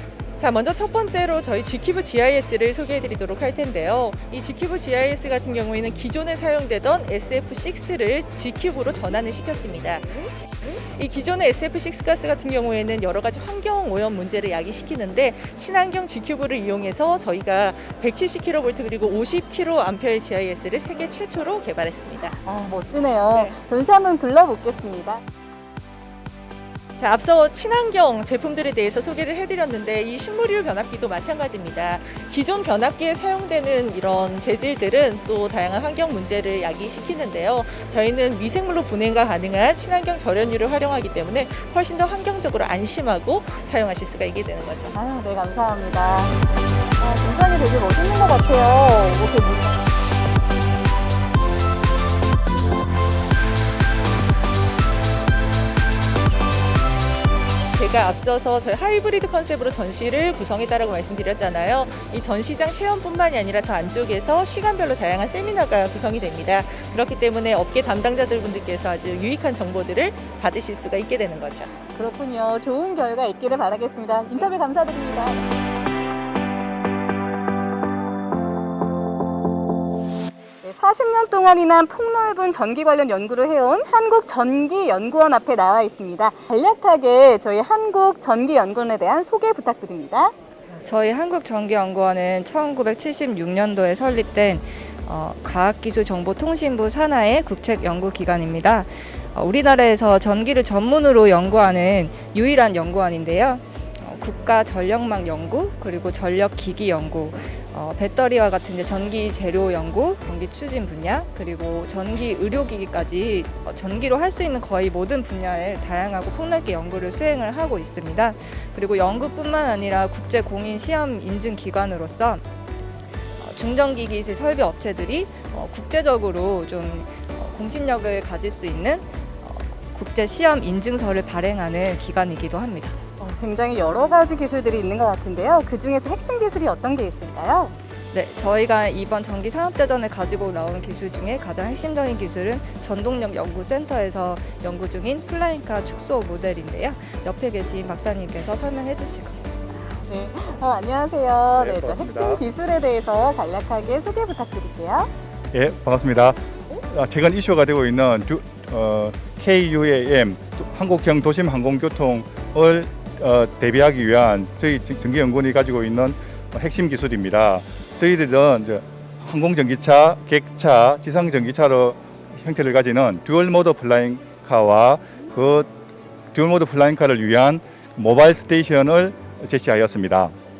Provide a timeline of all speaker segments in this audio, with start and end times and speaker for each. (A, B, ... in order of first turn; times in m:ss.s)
0:00.4-0:22.4 A
0:22.4-0:25.2 B
0:23.3-0:23.6 A
0:27.0-0:45.0 A
0:44.9-0:46.3 B
0:47.0-0:49.8 B
0:57.8-1:11.7 A
1:11.9-1:15.6 B
1:20.6-1:30.3 B
1:30.8-2:02.4 C
2:03.4-2:13.0 C
2:13.2-2:17.8 B
2:18.1-2:29.4 C
2:29.7-2:35.1 B
2:31.6-2:32.4 D
2:35.5-2:36.4 D
2:36.9-2:55.7 D
2:56.3-3:00.3 D